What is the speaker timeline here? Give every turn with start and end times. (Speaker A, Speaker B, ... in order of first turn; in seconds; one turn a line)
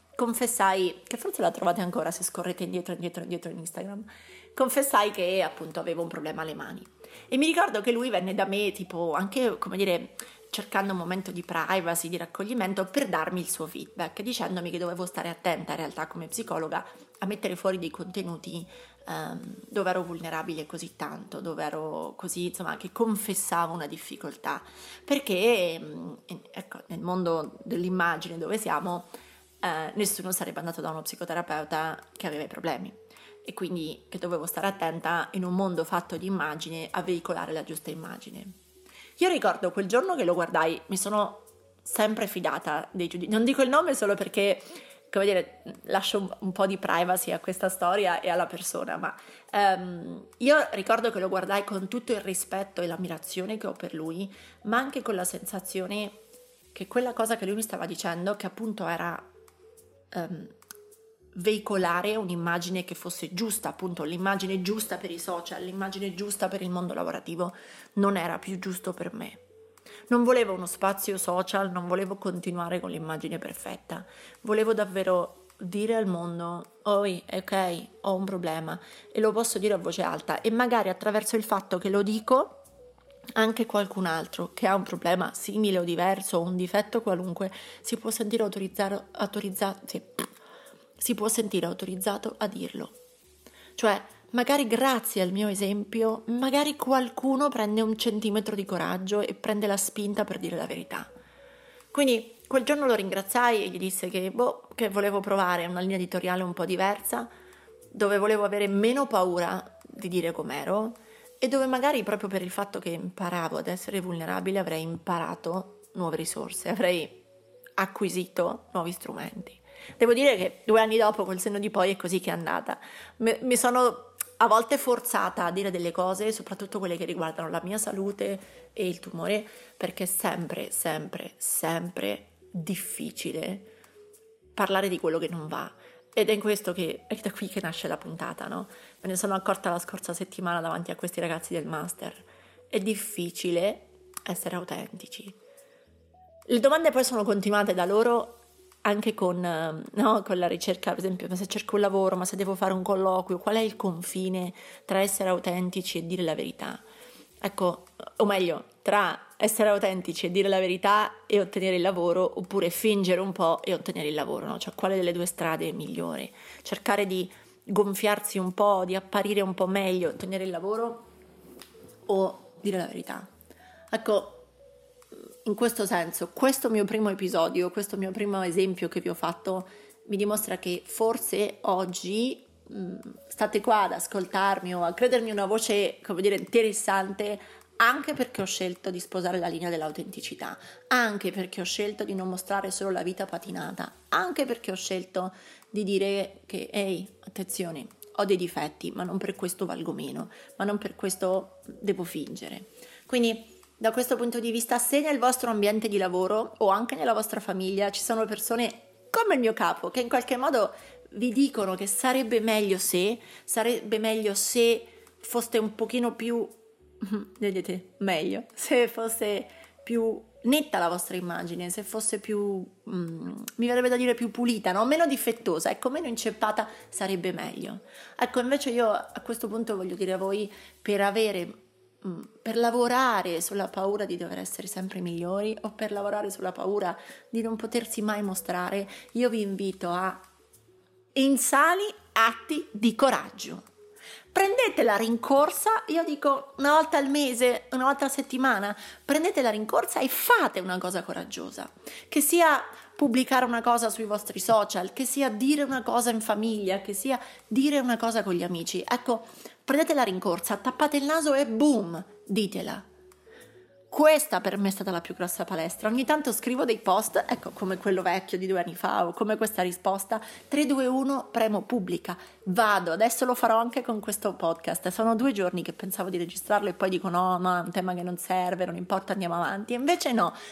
Speaker A: 0.1-29.1
Speaker A: 29.6-38.5
Speaker A: 39.2-56.2
Speaker A: 56.7-59.3
Speaker A: 60.1-60.5
Speaker A: 61.3-69.4
Speaker A: 70.1-82.6
Speaker A: 83.4-90.3
Speaker A: 91.0-92.9
Speaker A: 93.8-101.1
Speaker A: 101.9-107.3
Speaker A: 107.9-117.2
Speaker A: 117.8-133.7
Speaker A: 134.6-145.4
Speaker A: 146.5-156.8
Speaker A: 157.4-171.1
Speaker A: 172.1-173.3
Speaker A: 173.9-174.5
Speaker A: 175.4-240.2
Speaker A: 241.1-243.6
Speaker A: 244.3-262.8
Speaker A: 263.9-280.4